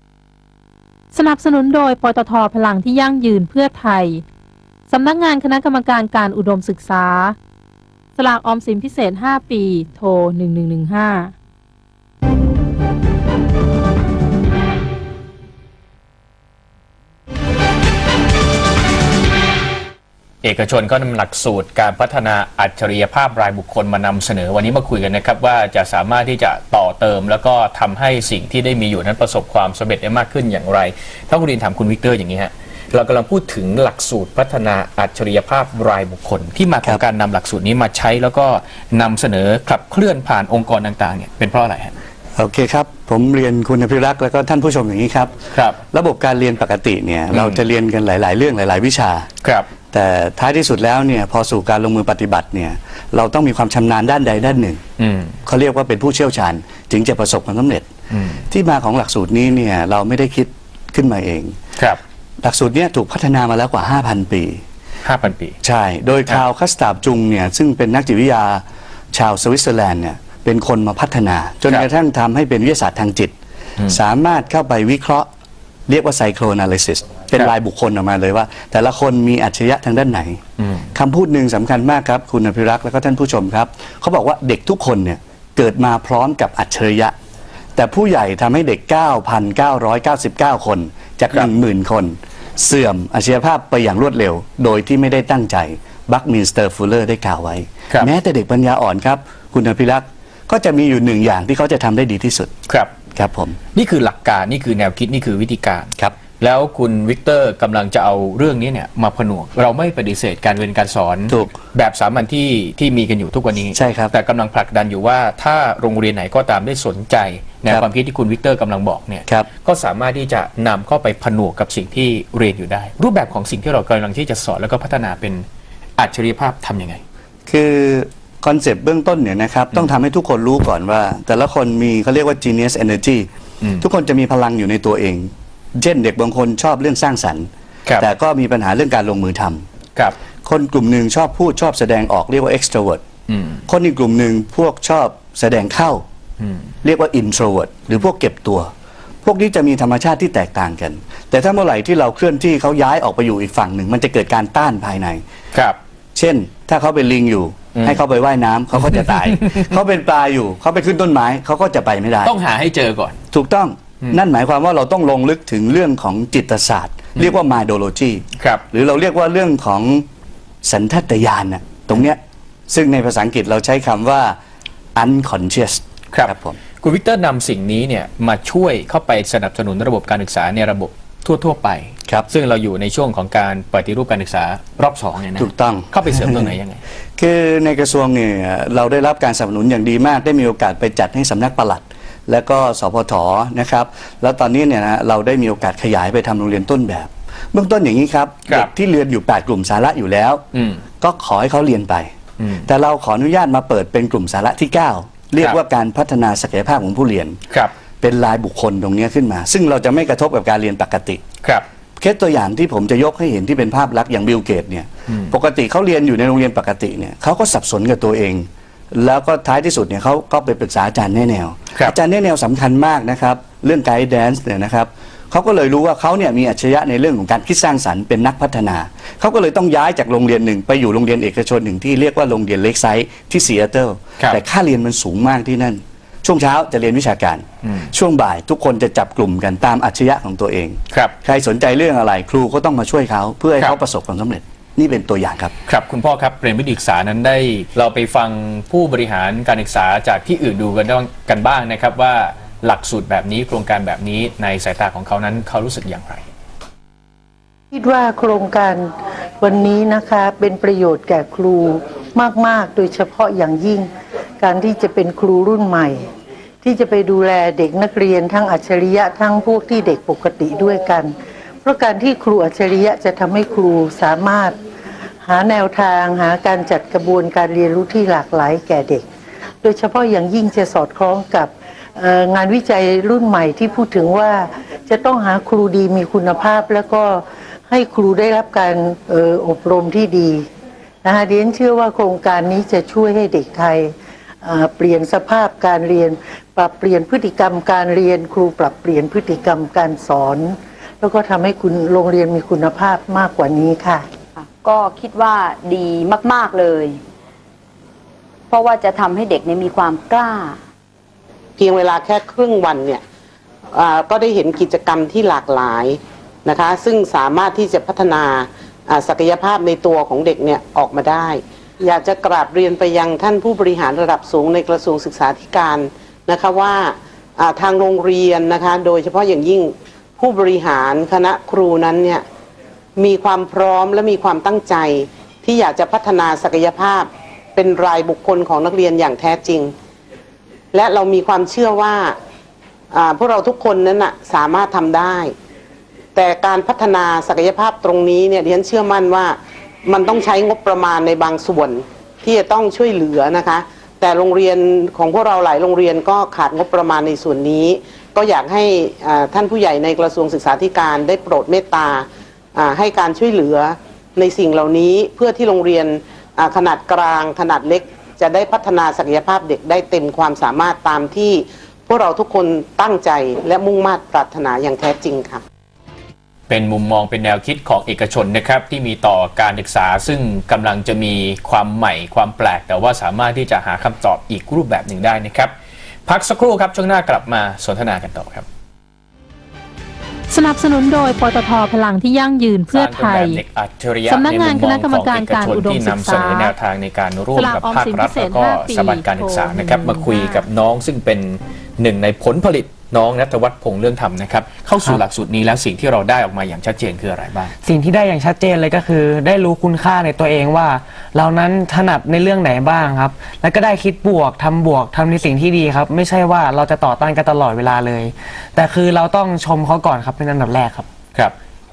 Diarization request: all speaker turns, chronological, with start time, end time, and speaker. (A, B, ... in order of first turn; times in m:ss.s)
0:01.1-0:04.2 A
0:04.9-0:07.4 A
0:08.2-0:11.3 A
0:20.4-0:41.9 B
0:42.4-0:45.4 C
0:45.5-0:45.8 B
0:45.9-0:49.3 C
0:47.3-0:47.6 B
0:49.4-0:49.7 B
0:49.9-0:54.8 C
0:55.0-0:55.4 B
0:55.4-0:57.9 C
0:58.1-0:58.4 B
0:58.5-1:01.6 C
1:02.4-1:04.6 C
1:05.0-1:05.6 B
1:05.6-1:13.3 C
1:13.9-1:15.3 C
1:15.9-1:20.4 C
1:20.9-1:27.1 C
1:27.8-1:42.5 C
1:42.7-1:42.9 B
1:43.1-1:43.6 C
1:43.7-2:05.4 B
1:53.7-1:54.1 C
2:06.0-2:07.0 B
2:07.4-2:13.3 C
2:13.8-2:17.5 C
2:18.0-2:19.6 C
2:20.4-2:23.0 C
2:23.3-2:23.6 B
2:23.7-2:26.0 C
2:26.8-2:28.7 C
2:29.2-2:35.2 C
2:36.1-2:42.3 C
2:37.8-2:38.0 B
2:42.2-2:43.2 B
2:43.3-2:50.0 C
2:48.4-2:48.6 B
2:50.6-2:54.4 C
2:55.0-2:56.6 C
2:56.1-3:06.8 B
3:05.4-3:06.5 C
3:07.2-3:20.4 C
3:20.5-3:20.8 B
3:21.0-3:22.1 C
3:22.4-3:22.7 B
3:22.6-3:27.4 C
3:28.0-3:31.2 C
3:32.0-4:05.5 C
4:00.9-4:01.2 B
4:05.7-4:16.2 B
4:17.7-4:23.9 D
4:24.4-4:26.0 D
4:26.6-4:31.1 D
4:31.6-4:34.6 D
4:35.2-4:39.0 D
4:39.6-4:50.4 D
4:51.0-5:04.0 D
5:04.4-5:07.0 E
5:08.5-5:10.6 E
5:11.6-5:13.0 F
5:13.7-5:32.2 F
5:33.0-5:39.7 F
5:40.7-5:42.2 F
5:42.9-5:45.3 F
5:46.2-6:15.4 F
6:16.5-6:25.5 B
6:26.1-6:28.4 B
6:30.3-6:33.4 A
6:32.7-6:47.5 B
6:34.1-6:36.5 A
6:37.3-6:40.5 A
6:47.6-7:00.9 G